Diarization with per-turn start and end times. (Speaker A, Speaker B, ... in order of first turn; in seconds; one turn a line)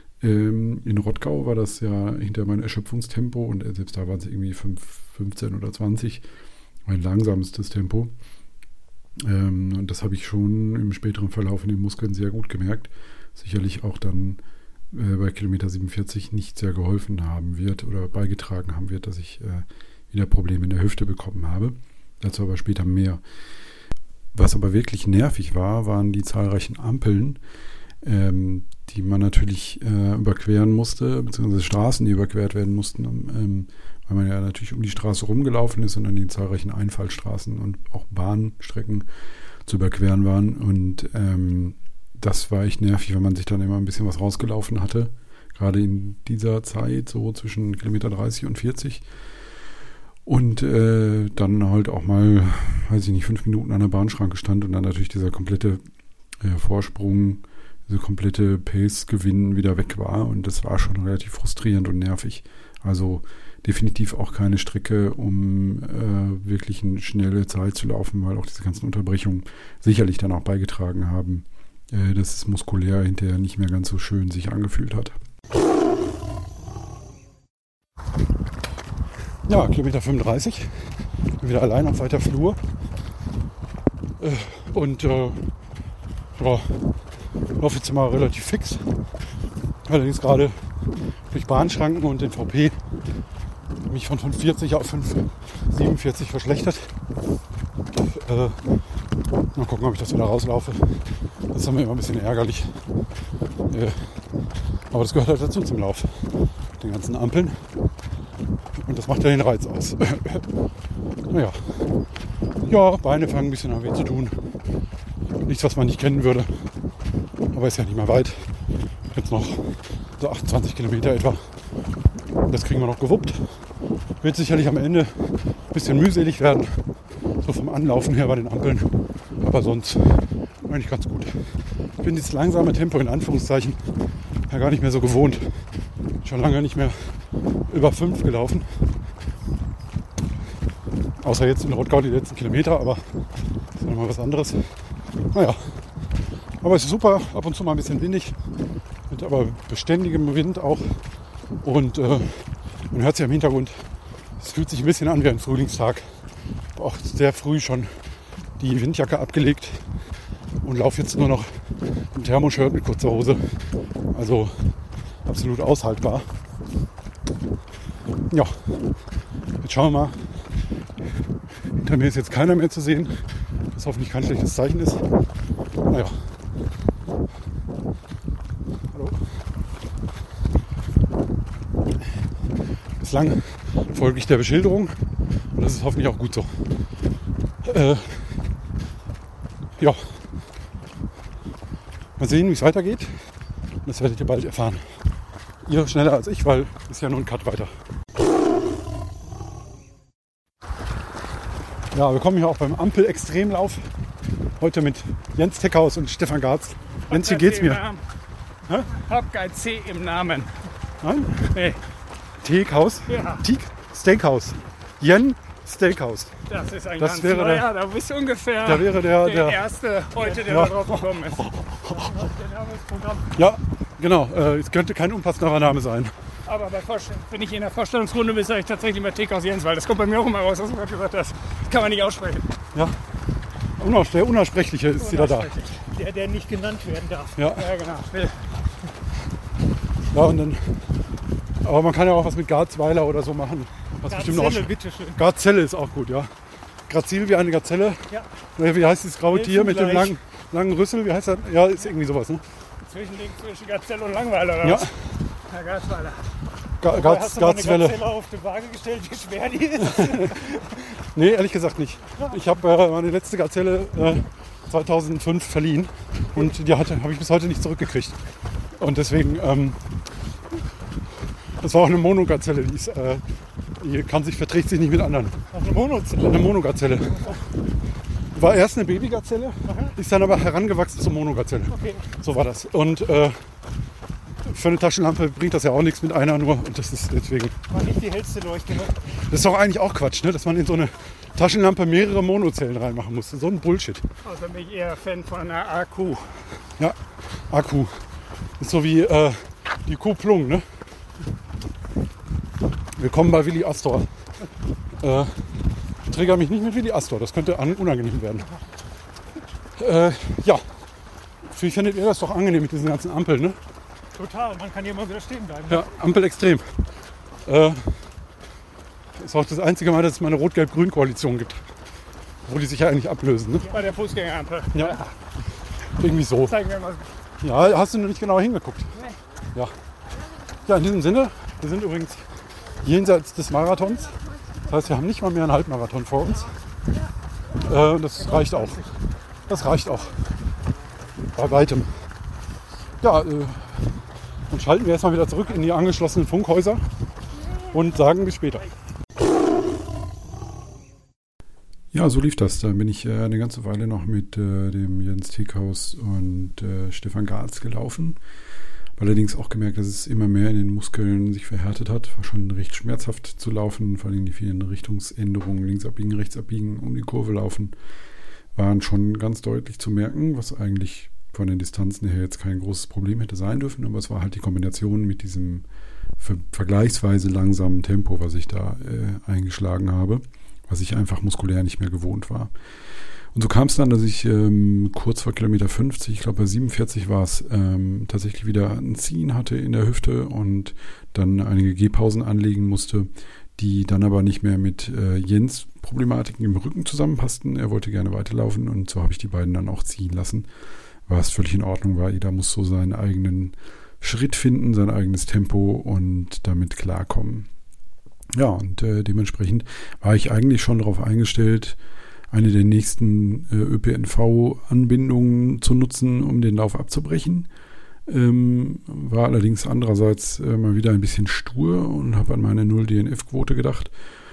Speaker A: 0.2-6.2
Speaker A: 6.8-8.1
Speaker A: 9.2-14.4
Speaker A: 14.9-23.2
Speaker A: 24.3-27.4
Speaker A: 28.0-39.1
Speaker A: 39.6-49.0
Speaker A: 50.2-55.8
Speaker A: 56.4-75.2
Speaker A: 79.5-82.6
Speaker A: 84.2-85.5
Speaker A: 86.3-87.0
Speaker A: 87.6-89.0
Speaker A: 89.8-92.8
Speaker A: 93.9-96.9
Speaker A: 97.9-98.8
Speaker A: 99.5-102.8
Speaker A: 103.7-104.3
Speaker A: 104.9-107.6
Speaker A: 108.8-110.5
Speaker A: 111.3-112.0
Speaker A: 112.6-114.5
Speaker A: 115.4-116.7
Speaker A: 117.5-121.5
Speaker A: 122.5-123.7
Speaker A: 124.2-135.7
Speaker A: 136.2-138.8
Speaker A: 141.2-145.9
Speaker A: 146.6-148.4
Speaker A: 149.1-151.1
Speaker A: 151.6-156.2
Speaker A: 156.7-158.0
Speaker A: 158.6-159.9
Speaker A: 160.6-166.3
Speaker A: 168.3-168.8
Speaker A: 169.6-170.3
Speaker A: 171.8-175.1
Speaker A: 175.9-176.3
Speaker A: 178.9-179.2
Speaker A: 183.0-186.7
Speaker A: 187.6-188.4
Speaker A: 189.8-190.3
Speaker A: 192.2-193.3
Speaker A: 193.8-194.9
Speaker A: 195.6-197.7
Speaker A: 201.9-203.9
Speaker A: 204.6-207.8
Speaker B: 207.1-208.0
Speaker B: 208.9-210.5
Speaker A: 211.0-211.6
Speaker B: 211.5-211.8
Speaker A: 212.4-216.3
Speaker B: 213.1-213.4
Speaker B: 216.5-223.3
Speaker A: 217.0-217.7
Speaker A: 218.6-219.6
Speaker A: 220.3-222.2
Speaker A: 223.3-226.1
Speaker B: 226.4-232.5
Speaker A: 233.8-235.5
Speaker B: 235.0-238.4
Speaker A: 237.3-237.7
Speaker A: 240.1-240.9
Speaker A: 241.6-246.3
Speaker B: 244.1-245.2
Speaker A: 246.9-252.4
Speaker B: 249.2-250.2
Speaker B: 252.9-254.9
Speaker A: 254.6-255.0
Speaker B: 255.5-256.2
Speaker A: 256.8-258.1
Speaker B: 256.9-260.6
Speaker A: 259.8-268.2
Speaker A: 268.8-270.0
Speaker A: 271.6-273.2
Speaker A: 273.8-277.4
Speaker B: 275.5-276.2
Speaker A: 278.3-283.4
Speaker B: 279.7-279.9
Speaker B: 281.7-282.1
Speaker A: 284.4-287.6
Speaker B: 287.7-288.9
Speaker A: 289.3-294.1
Speaker B: 294.2-296.4
Speaker A: 296.8-298.0
Speaker A: 298.6-300.6
Speaker A: 302.9-304.1
Speaker A: 305.0-308.5
Speaker A: 309.8-310.7
Speaker A: 311.4-313.6
Speaker B: 314.1-315.8
Speaker A: 315.7-316.8
Speaker A: 317.4-318.1
Speaker A: 319.1-321.6
Speaker A: 322.4-323.8
Speaker B: 323.6-325.0
Speaker A: 324.7-325.1
Speaker A: 326.0-326.6
Speaker B: 326.5-327.1
Speaker A: 327.4-328.9
Speaker A: 330.6-332.2
Speaker A: 332.8-336.5
Speaker A: 337.6-338.8
Speaker B: 338.4-338.8
Speaker A: 339.5-340.2
Speaker A: 341.3-342.1
Speaker A: 343.0-346.9
Speaker A: 347.7-348.7
Speaker A: 351.9-358.2
Speaker A: 359.0-367.7
Speaker A: 368.5-375.6
Speaker A: 376.2-382.5
Speaker A: 383.3-400.5
Speaker A: 401.1-407.5
Speaker A: 408.3-411.8
Speaker A: 412.3-417.5
Speaker A: 418.1-423.9